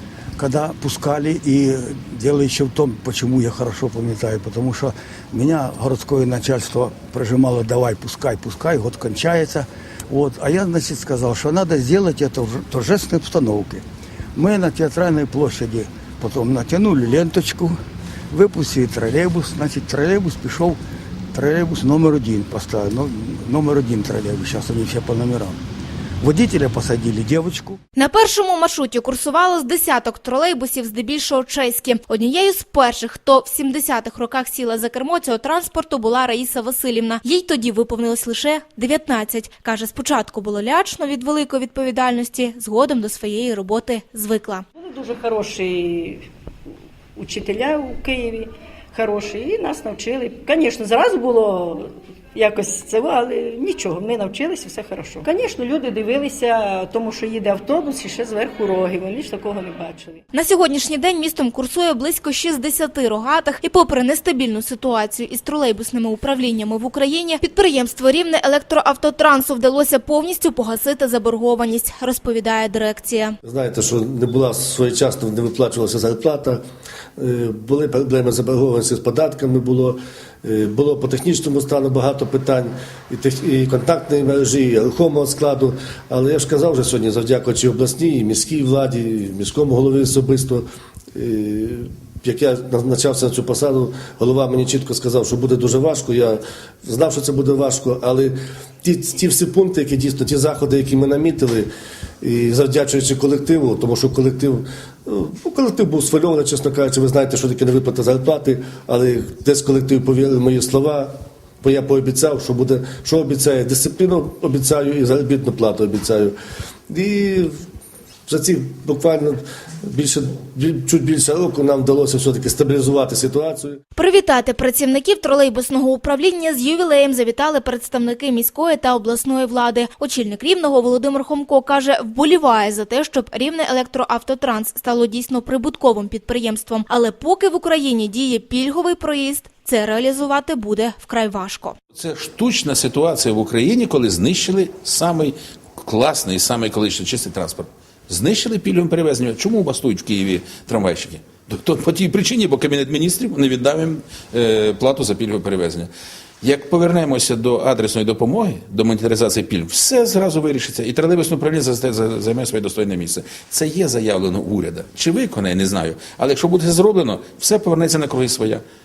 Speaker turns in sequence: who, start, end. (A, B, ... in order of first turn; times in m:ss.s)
0:00.4-0:13.8 A
0:14.3-0:17.8 A
0:18.3-0:20.8 A
0:21.3-0:25.6 A
0:26.2-0:27.8 A
0:27.9-0:44.6 B
0:44.8-0:46.2 C
0:47.2-1:00.2 C
1:00.3-1:13.4 B
1:13.4-1:16.6 D
1:17.2-1:41.7 D
1:42.2-1:56.3 D
1:56.9-1:57.5 D
1:58.3-2:03.8 D
2:03.9-2:21.8 B
2:21.9-2:35.9 E
2:36.4-2:48.6 E